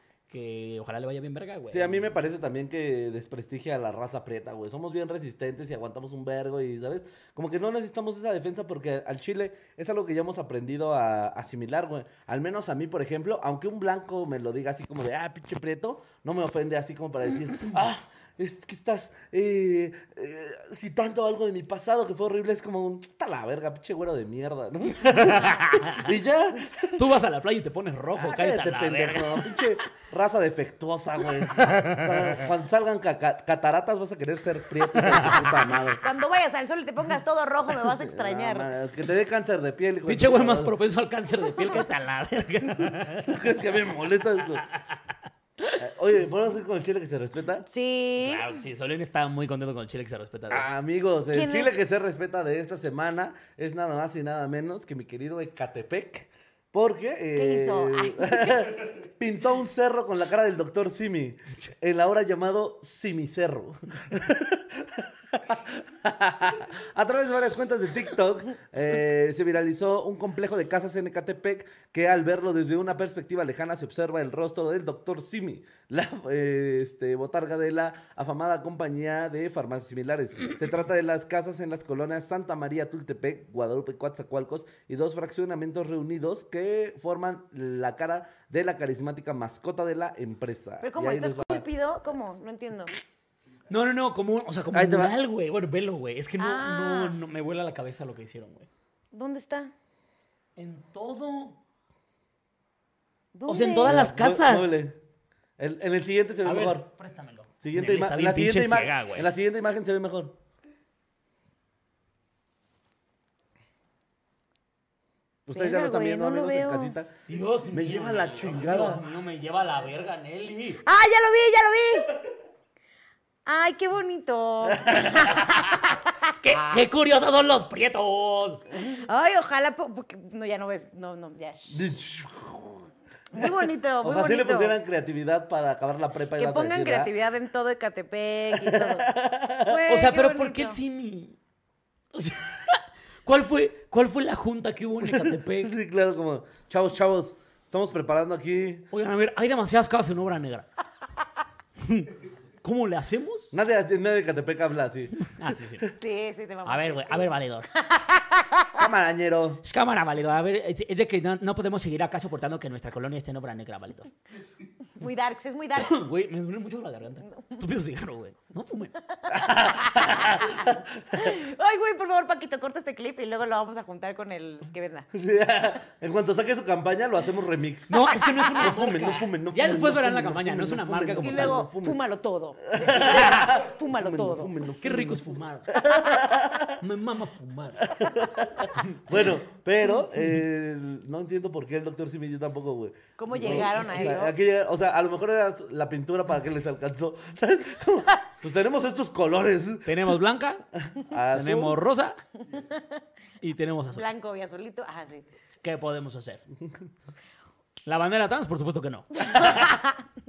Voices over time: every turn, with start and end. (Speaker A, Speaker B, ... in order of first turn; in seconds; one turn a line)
Speaker A: 0.3-2.1
Speaker B: 1.7-27.0
Speaker A: 25.1-26.1
Speaker A: 26.9-29.7
Speaker B: 28.1-36.0
Speaker A: 31.5-32.4
Speaker A: 35.0-35.5
Speaker C: 36.0-38.7
Speaker B: 37.8-40.7
Speaker A: 40.1-43.4
Speaker B: 43.2-44.6
Speaker B: 45.8-47.7
Speaker C: 47.7-48.5
Speaker A: 48.2-50.7
Speaker B: 50.5-91.7
Speaker C: 51.3-51.8
Speaker C: 57.4-58.8
Speaker C: 90.8-92.9
Speaker A: 93.7-98.7
Speaker B: 94.7-95.1
Speaker C: 96.4-97.2
Speaker C: 99.1-99.7
Speaker A: 100.6-101.6
Speaker C: 103.3-104.0
Speaker A: 103.5-104.8
Speaker B: 103.8-105.0
Speaker B: 105.6-106.9
Speaker A: 106.4-109.3
Speaker B: 107.6-110.3
Speaker B: 115.5-117.2
Speaker C: 115.5-117.0
Speaker A: 117.3-120.8
Speaker B: 117.7-119.0
Speaker C: 120.8-122.1
Speaker C: 123.5-126.3
Speaker B: 124.9-125.1
Speaker A: 125.2-125.8
Speaker A: 126.4-128.6
Speaker C: 128.8-131.8
Speaker B: 131.7-132.9
Speaker C: 133.3-134.8
Speaker B: 134.0-137.1
Speaker C: 136.4-140.8
Speaker B: 138.5-139.8
Speaker A: 139.9-141.4
Speaker A: 142.1-145.8
Speaker B: 145.0-148.9
Speaker A: 148.9-150.7
Speaker A: 151.8-153.5
Speaker B: 153.5-155.2
Speaker A: 155.2-155.9
Speaker C: 155.9-158.8
Speaker A: 156.7-157.7
Speaker B: 158.8-159.6
Speaker A: 159.7-164.1
Speaker C: 165.0-166.0
Speaker A: 165.8-168.9
Speaker C: 167.3-167.6
Speaker B: 169.3-171.3
Speaker C: 169.4-175.1
Speaker B: 175.1-182.0
Speaker A: 177.9-181.7
Speaker C: 178.4-178.7
Speaker C: 181.2-184.5
Speaker B: 182.7-186.8
Speaker A: 183.0-183.5
Speaker A: 184.8-185.8
Speaker A: 186.8-187.9
Speaker B: 187.9-200.2
Speaker A: 188.8-189.0
Speaker C: 193.2-194.3
Speaker A: 199.9-200.6
Speaker B: 200.8-201.8
Speaker A: 201.3-202.2
Speaker C: 202.6-202.8
Speaker A: 203.4-204.1
Speaker C: 203.9-205.2
Speaker A: 205.6-206.4
Speaker A: 207.9-209.8
Speaker C: 209.3-209.9